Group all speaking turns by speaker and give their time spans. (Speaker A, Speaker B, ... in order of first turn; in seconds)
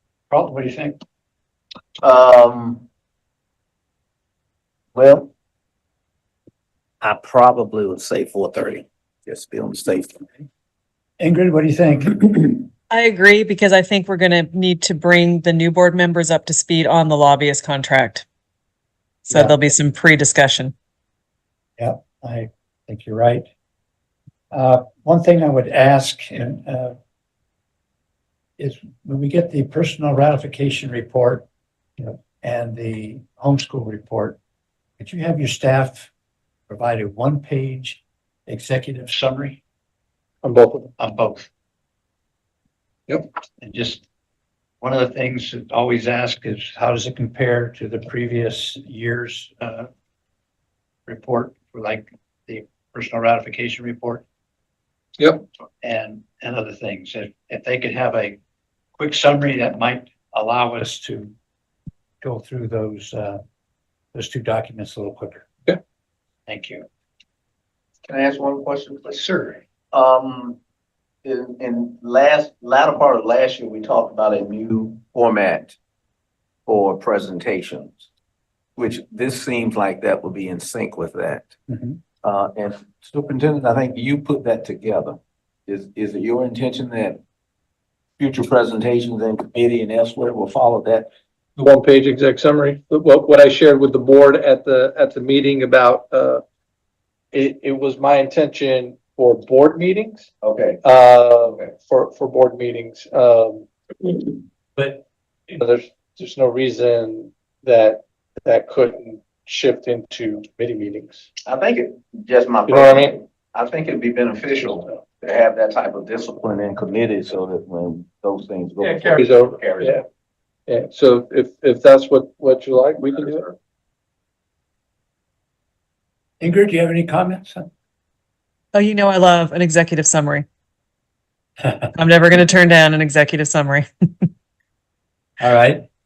Speaker A: 0.3-1.0, 11.2-12.7, 19.3-19.5, 21.8-23.5, 24.5-26.9, 28.6-31.4, 32.0-34.4, 35.0-36.1, 36.7-39.6, 41.0-41.5, 43.6-44.0, 44.8-49.9, 51.0-54.2, 55.8-58.4, 59.0-61.3, 62.2-63.4, 64.1-65.5, 66.5-66.8, 69.2-69.6, 81.7-82.0, 126.4-127.7, 135.4-135.8
Speaker B: 2.0-2.9, 4.9-5.3, 7.0-10.2, 68.0-69.2, 69.9-70.6, 71.2-75.8, 76.7-78.0, 78.8-81.5, 82.2-87.2, 88.2-91.1, 100.4-100.8, 101.4-101.7, 111.5-120.0, 123.0-123.5
Speaker C: 12.9-18.2, 19.3-20.7, 128.7-130.4, 131.9-134.3
Speaker D: 40.4-40.9, 91.6-96.4, 97.3-100.3, 100.8-104.3, 105.5-111.3, 112.7-113.2, 118.9-120.0, 120.7-123.5